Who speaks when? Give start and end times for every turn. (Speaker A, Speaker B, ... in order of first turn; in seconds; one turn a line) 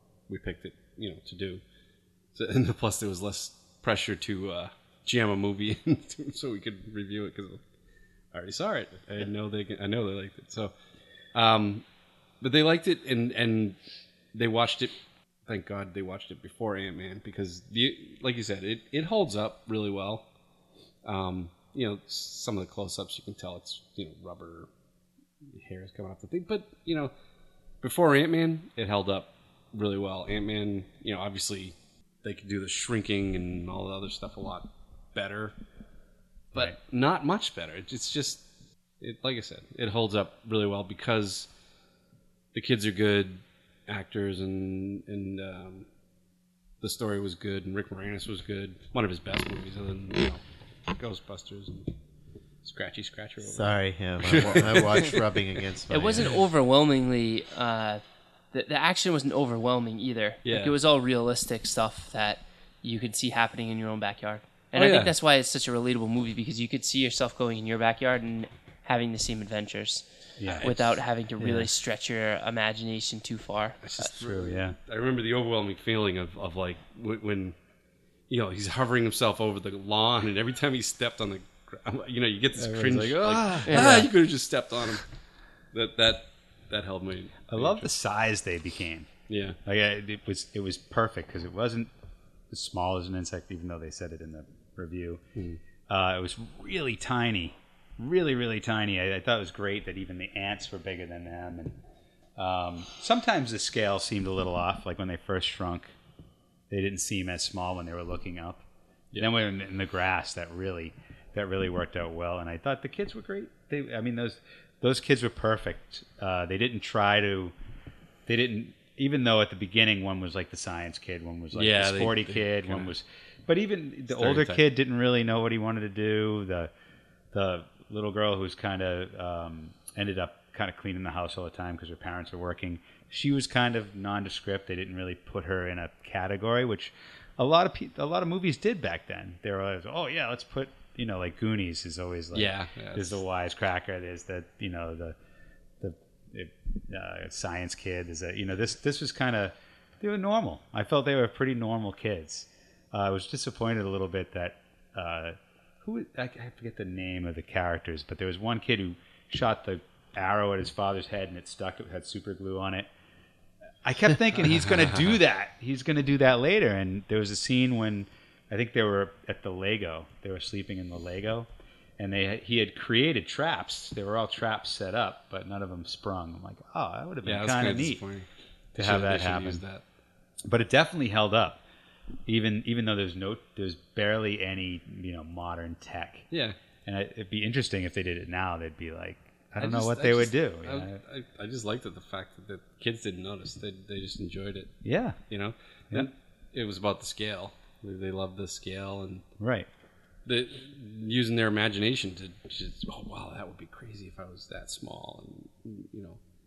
Speaker A: 0.3-1.6
Speaker A: 2.3-7.6
Speaker A: 8.3-10.7
Speaker A: 11.3-11.8
Speaker A: 12.4-13.8
Speaker A: 14.3-14.9
Speaker A: 15.5-20.3
Speaker A: 21.1-24.7
Speaker A: 25.5-27.1
Speaker A: 27.8-35.5
Speaker A: 36.5-38.4
Speaker A: 39.0-41.5
Speaker A: 42.5-45.9
Speaker A: 46.8-50.4
Speaker A: 51.0-51.9
Speaker A: 52.6-55.2
Speaker B: 53.4-56.3
Speaker C: 55.9-58.0
Speaker C: 58.5-70.0
Speaker A: 60.5-60.8
Speaker A: 64.8-65.1
Speaker D: 70.4-70.7
Speaker A: 70.5-71.0
Speaker C: 70.6-73.8
Speaker A: 73.8-77.5
Speaker D: 74.0-74.8
Speaker A: 78.3-85.0
Speaker D: 82.6-84.1
Speaker C: 83.7-84.0
Speaker A: 85.7-87.9
Speaker D: 87.5-89.1
Speaker A: 89.3-89.6
Speaker D: 89.7-91.9
Speaker D: 92.5-95.2
Speaker A: 95.4-95.6
Speaker D: 95.9-101.8
Speaker D: 102.4-105.9
Speaker D: 106.7-108.6
Speaker D: 109.2-117.5
Speaker D: 118.3-126.7
Speaker A: 121.5-122.9
Speaker A: 124.1-124.6
Speaker D: 127.3-145.2
Speaker A: 142.3-143.2
Speaker D: 145.8-162.9
Speaker D: 163.8-178.0
Speaker A: 177.2-179.8
Speaker D: 178.8-179.6
Speaker D: 180.5-181.6
Speaker D: 182.3-186.3
Speaker A: 186.3-186.6
Speaker D: 186.8-191.0
Speaker A: 189.6-199.3
Speaker D: 194.8-195.2
Speaker D: 199.4-199.7
Speaker A: 200.3-206.2